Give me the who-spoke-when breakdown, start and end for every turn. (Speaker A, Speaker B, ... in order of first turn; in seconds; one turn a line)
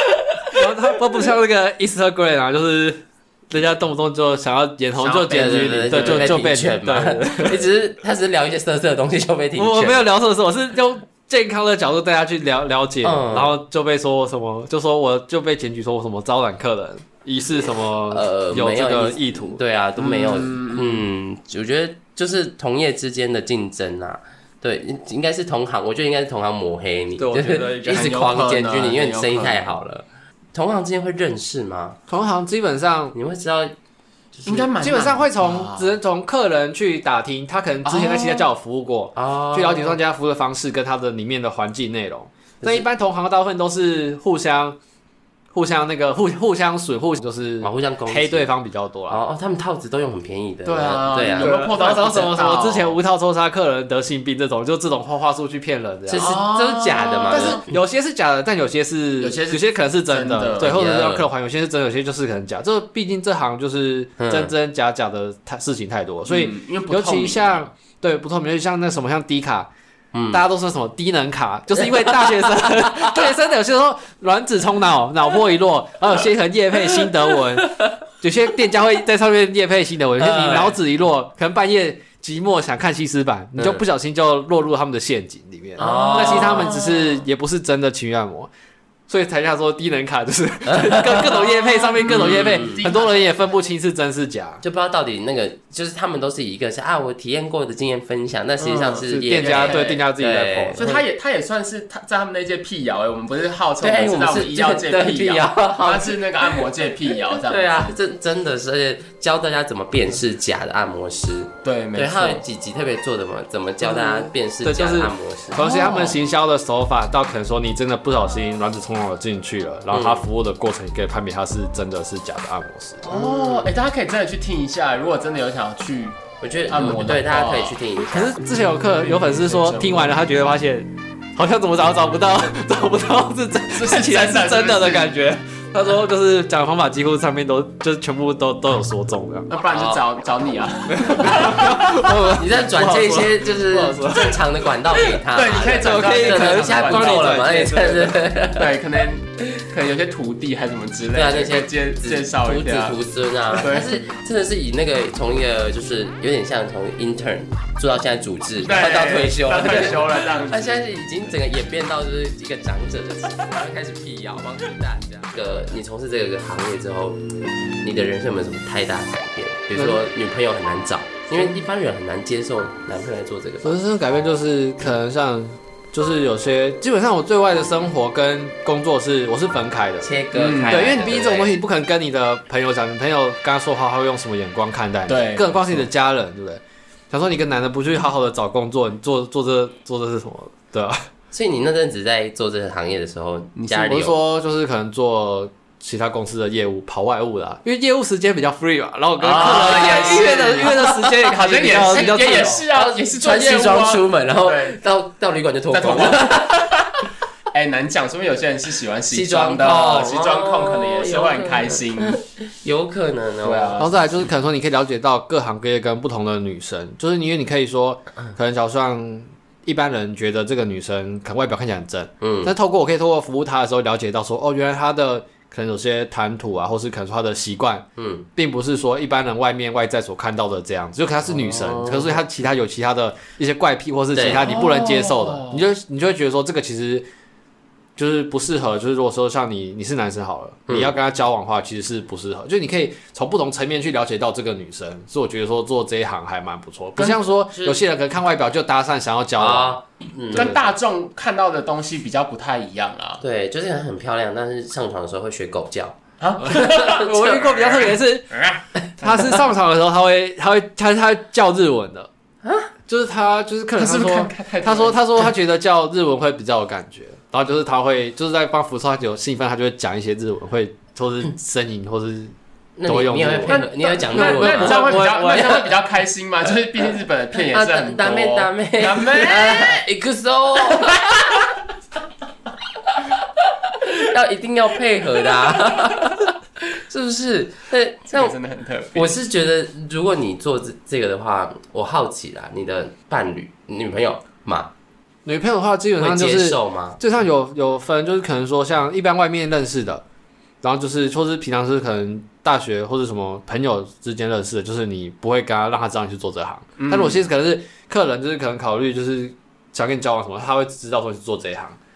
Speaker A: 0.3-0.6
Speaker B: 0.5-7.7
Speaker C: 5.0-6.5
Speaker A: 5.3-10.0
Speaker B: 9.6-19.6
Speaker A: 13.0-13.5
Speaker A: 18.1-32.0
Speaker C: 20.0-21.1
Speaker B: 27.2-28.3
Speaker C: 27.9-29.7
Speaker B: 32.1-33.1
Speaker A: 33.1-33.7
Speaker A: 34.3-34.7
Speaker C: 34.4-36.0
Speaker B: 34.8-44.8
Speaker C: 37.8-38.5
Speaker A: 39.1-40.0
Speaker B: 45.5-49.2
Speaker A: 47.6-48.5
Speaker A: 49.1-51.6
Speaker C: 50.6-53.0
Speaker B: 51.4-56.4
Speaker A: 56.1-57.7
Speaker C: 56.1-57.6
Speaker B: 57.3-69.7
Speaker C: 59.2-60.8
Speaker A: 60.6-61.2
Speaker A: 64.2-64.5
Speaker C: 66.2-67.7
Speaker A: 70.1-70.4
Speaker B: 70.3-88.5
Speaker A: 71.8-73.2
Speaker A: 77.6-77.9
Speaker A: 80.2-80.7
Speaker A: 83.6-83.8
Speaker C: 85.8-87.2
Speaker A: 85.8-86.7
Speaker B: 89.1-94.6
Speaker A: 90.7-91.4
Speaker C: 91.4-93.4
Speaker A: 92.0-92.8
Speaker A: 94.6-101.0
Speaker C: 98.6-100.0
Speaker B: 99.0-100.8
Speaker C: 100.8-107.9
Speaker A: 103.8-106.6
Speaker A: 107.2-115.6
Speaker C: 111.6-112.4
Speaker B: 113.8-123.0
Speaker C: 115.6-116.2
Speaker A: 119.9-120.2
Speaker C: 123.0-126.2
Speaker A: 123.1-123.7
Speaker A: 126.4-128.4
Speaker C: 126.7-127.8
Speaker B: 128.1-139.5
Speaker C: 129.0-130.2
Speaker C: 133.7-135.1
Speaker C: 139.5-141.7
Speaker A: 139.7-140.0
Speaker B: 140.9-144.5
Speaker A: 141.2-148.7
Speaker C: 145.3-147.7
Speaker B: 145.7-148.2
Speaker C: 148.5-153.0
Speaker A: 151.1-167.2
Speaker C: 153.5-154.0
Speaker C: 158.6-160.7
Speaker A: 167.8-173.7
Speaker B: 169.8-170.0
Speaker B: 173.6-191.0
Speaker A: 180.0-181.5
Speaker C: 180.3-181.1
Speaker C: 185.1-185.9
Speaker A: 191.3-194.1
Speaker C: 193.6-193.9
Speaker B: 193.8-202.6
Speaker C: 199.2-204.8
Speaker A: 199.3-206.8
Speaker C: 205.7-206.5
Speaker C: 207.5-212.2
Speaker A: 209.1-213.8
Speaker C: 213.4-214.3
Speaker B: 213.8-237.1
Speaker A: 222.2-222.5
Speaker A: 228.0-228.3
Speaker A: 231.2-232.2
Speaker A: 234.1-234.7
Speaker C: 234.3-235.4
Speaker B: 238.0-249.8
Speaker A: 240.7-240.9
Speaker A: 247.5-247.8
Speaker A: 249.4-250.6
Speaker B: 250.3-250.6
Speaker C: 250.3-253.2
Speaker A: 253.2-256.0
Speaker C: 256.2-259.4
Speaker B: 256.4-262.1
Speaker A: 262.4-262.7
Speaker B: 262.9-272.3
Speaker C: 263.8-265.3
Speaker A: 272.8-275.6
Speaker B: 272.9-275.7
Speaker C: 273.5-279.8
Speaker A: 277.5-281.2
Speaker A: 283.7-288.4
Speaker C: 288.1-289.1
Speaker A: 288.9-294.7
Speaker B: 295.2-300.0
Speaker A: 296.0-297.0
Speaker B: 300.6-311.8
Speaker C: 306.8-307.2